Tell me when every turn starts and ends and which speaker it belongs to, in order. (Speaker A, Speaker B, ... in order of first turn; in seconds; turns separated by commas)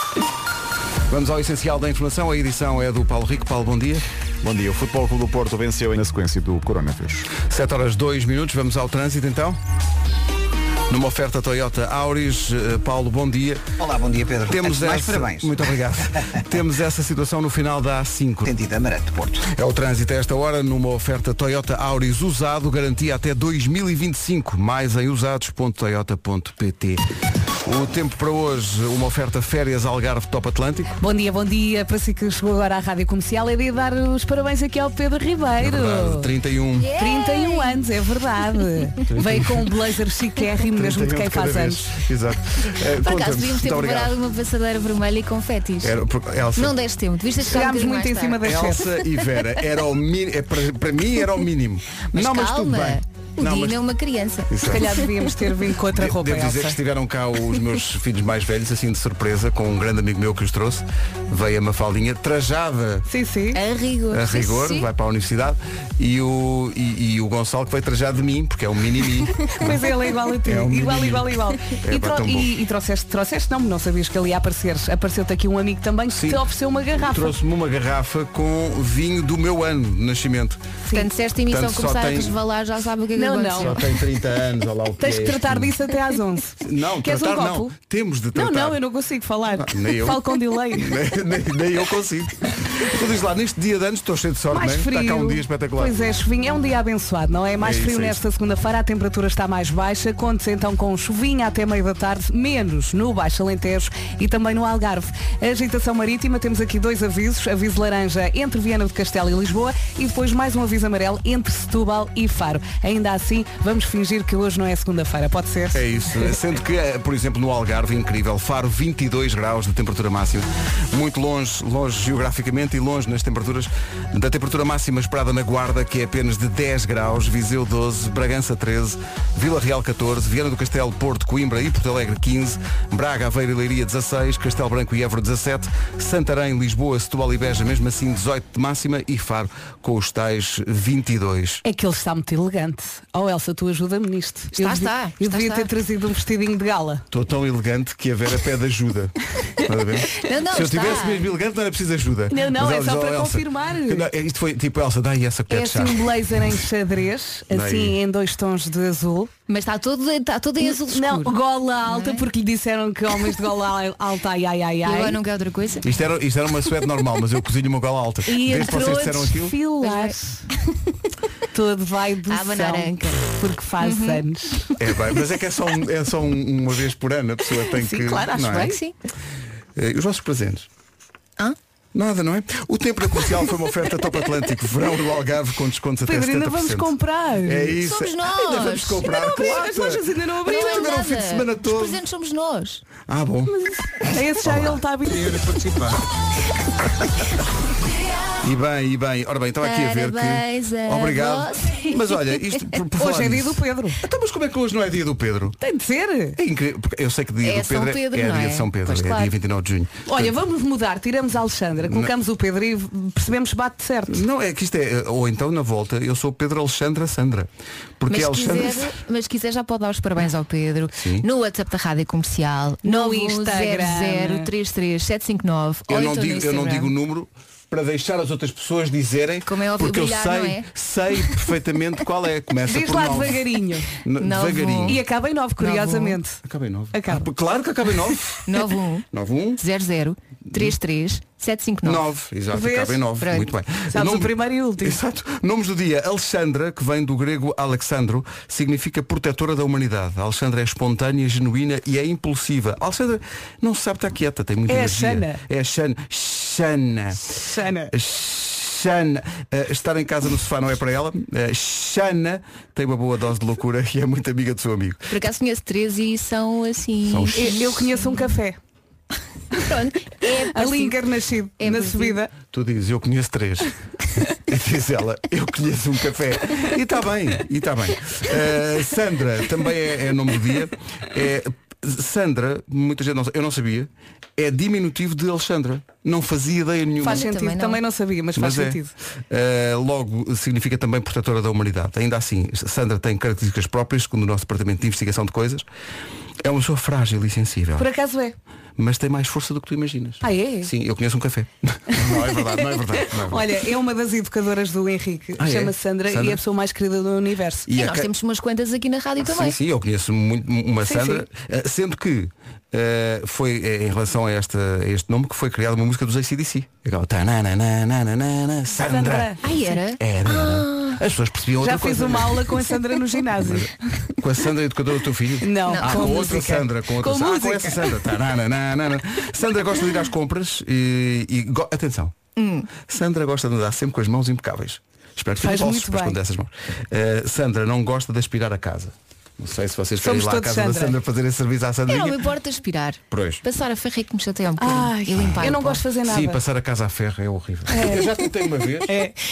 Speaker A: 1.1-4.0, Speaker B: 4.4-7.3, Speaker A: 7.4-9.6, Speaker A: 10.9-13.6, Speaker C: 13.8-15.7, Speaker A: 14.5-18.5, Speaker C: 18.5-19.5, Speaker A: 19.5-27.0, Speaker A: 27.6-30.9, Speaker D: 31.0-36.3, Speaker A: 35.6-36.9, Speaker E: 36.9-37.8, Speaker D: 36.9-41.9, Speaker A: 39.1-39.7, Speaker A: 40.8-44.2, Speaker E: 43.0-46.0, Speaker A: 45.8-46.8, Speaker E: 46.6-48.7, Speaker D: 47.4-48.9, Speaker A: 48.4-53.8, Speaker E: 52.1-55.2, Speaker A: 54.5-54.9, Speaker D: 54.6-56.8, Speaker A: 55.9-63.1, Speaker D: 63.1-63.6, Speaker E: 63.5-64.9, Speaker A: 64.1-69.8, Speaker D: 69.5-77.3, Speaker A: 70.5-71.3, Speaker A: 71.8-72.5, Speaker A: 76.1-76.4, Speaker A: 77.0-80.6, Speaker E: 80.9-83.9, Speaker A: 81.5-82.3, Speaker D: 83.2-83.8, Speaker A: 83.6-85.8, Speaker D: 85.0-87.7, Speaker A: 86.6-88.8, Speaker D: 88.3-91.0, Speaker A: 89.6-96.0, Speaker D: 94.5-116.3, Speaker A: 97.6-98.2, Speaker A: 115.7-141.6, Speaker D: 141.7-147.0, Speaker E: 144.6-145.7, Speaker A: 147.1-156.0, Speaker E: 150.2-151.3, Speaker D: 152.3-154.1, Speaker D: 155.5-159.3, Speaker A: 157.5-158.0, Speaker E: 159.5-162.3, Speaker D: 160.6-165.2, Speaker E: 164.8-165.8, Speaker A: 165.8-169.6, Speaker D: 168.3-170.4, Speaker E: 169.8-170.2, Speaker D: 171.5-174.7, Speaker E: 172.3-174.2, Speaker A: 174.8-178.8, Speaker D: 177.7-178.8, Speaker E: 178.4-178.9, Speaker A: 179.8-180.7, Speaker A: 181.9-186.9, Speaker D: 186.1-187.8, Speaker A: 187.4-192.0, Speaker E: 187.8-189.1, Speaker D: 189.0-190.9, Speaker E: 190.4-192.8, Speaker A: 193.1-193.5, Speaker D: 193.5-195.5, Speaker A: 194.4-194.8, Speaker A: 198.4-205.6, Speaker E: 199.6-202.5, Speaker D: 203.0-204.0, Speaker D: 205.6-206.4, Speaker A: 206.4-210.3, Speaker E: 207.4-209.3, Speaker D: 210.1-214.2, Speaker A: 211.8-212.1, Speaker A: 214.1-217.5, Speaker A: 218.0-218.9, Speaker E: 218.1-226.9, Speaker A: 220.9-221.2, Speaker D: 222.8-224.5, Speaker A: 225.9-235.0, Speaker E: 229.5-230.7, Speaker D: 232.7-233.9, Speaker E: 234.2-235.0, Speaker D: 234.9-236.4, Speaker E: 235.6-236.2, Speaker A: 236.4-238.5, Speaker D: 236.9-237.3, Speaker E: 238.5-239.1, Speaker A: 239.1-239.6, Speaker E: 239.6-242.0, Speaker A: 241.8-257.2, Speaker D: 242.5-243.0, Speaker E: 243.2-243.6, Speaker D: 243.9-245.0, Speaker D: 254.7-255.4, Speaker D: 257.3-257.9, Speaker A: 257.9-265.1, Speaker E: 265.1-268.2, Speaker A: 267.1-267.8, Speaker D: 267.3-268.6, Speaker E: 269.6-271.0, Speaker D: 270.5-272.3, Speaker E: 271.6-272.2, Speaker A: 272.5-273.7, Speaker A: 274.5-287.2, Speaker E: 287.0-287.8, Speaker D: 287.0-288.9, Speaker A: 288.4-288.8, Speaker A: 289.3-295.6, Speaker A: 296.4-297.9, Speaker D: 297.8-298.4, Speaker A: 298.8-303.5, Speaker D: 300.2-300.7, Speaker D: 302.0-307.7, Speaker A: 305.4-306.4, Speaker A: 307.7-308.1, Speaker E: 307.8-309.6, Speaker A: 309.2-319.4, Speaker D: 310.8-311.2, Speaker D: 318.7-319.7, Speaker E: 319.4-321.0, Speaker A: 320.0-322.8, Speaker D: 321.6-324.1, Speaker A: 323.4-332.1, Speaker D: 325.4-327.9, Speaker E: 325.7-326.4, Speaker E: 332.4-332.7, Speaker A: 332.8-342.2, Speaker D: 335.4-336.2, Speaker D: 340.0-341.0, Speaker E: 341.9-345.8, Speaker A: 343.1-343.4, Speaker D: 344.6-346.4, Speaker A: 346.1-349.0, Speaker D: 347.7-348.1, Speaker D: 348.9-349.1